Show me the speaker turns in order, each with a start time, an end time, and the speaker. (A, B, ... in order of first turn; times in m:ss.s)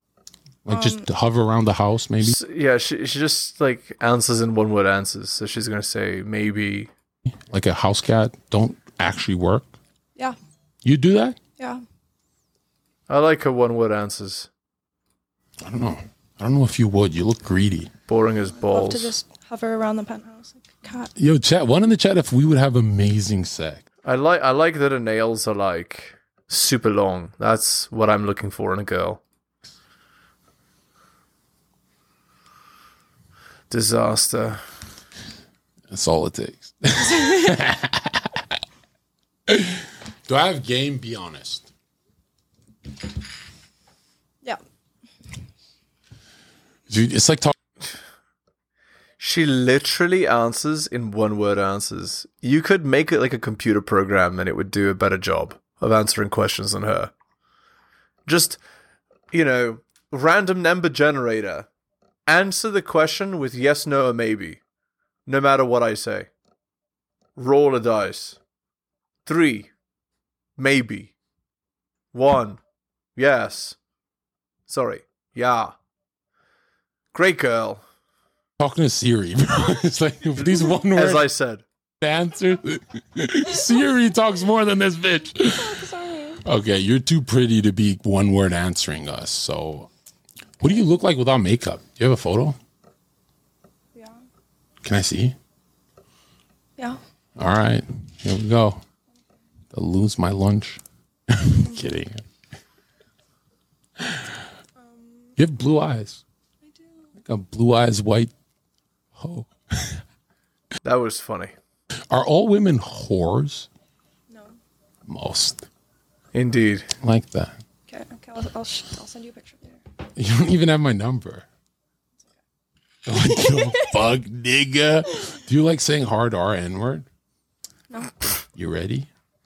0:00.6-0:02.4 A
0:00.7-0:01.1 B
0:02.2-0:06.9 C
0:07.3-0:09.7 A
0:10.8-0:11.4 A
0:13.1-0:14.5 C
0:15.6-0:17.9 A
0:18.1-0:19.1 C
0:18.6-0:21.1 B
0:21.2-0:23.8 A
0:24.0-0:29.2 C
0:33.7-0:34.6 C
0:35.9-0:38.4 A
0:39.5-0:41.7 A
0:46.9-0:47.5 A
0:49.2-0:57.1 C
0:58.3-0:58.6 C
0:59.3-1:01.7 C
1:02.3-1:04.6 C
1:05.3-1:06.3 C
1:07.4-1:08.4 C
1:09.3-1:09.7 C
1:10.6-1:11.1 C
1:12.1-1:12.6 C
1:13.2-1:13.8 C
1:14.7-1:15.7 C
1:17.1-1:17.8 C
1:18.6-1:21.3 A
1:20.9-1:21.6 C
1:22.0-1:25.8 A
1:25.5-1:26.4 B
1:26.4-1:29.9 A
1:30.6-1:32.6 A
1:34.8-1:35.4 A
1:37.4-1:38.8 A
1:39.7-1:42.2 A
1:44.8-1:45.3 B
1:45.4-1:46.2 A
1:46.6-1:47.1 B
1:47.2-1:48.3 A
1:49.2-1:50.0 A
1:50.8-1:51.5 C
1:52.1-1:53.7 A
1:54.3-1:54.6 B
1:55.1-1:55.7 A
1:56.3-1:56.9 C
1:57.0-1:57.6 A
1:57.9-1:59.8 B
2:00.2-2:01.4 A
2:03.1-2:07.1 A
2:03.4-2:03.9 B
2:07.9-2:08.2 B
2:08.6-2:09.1 A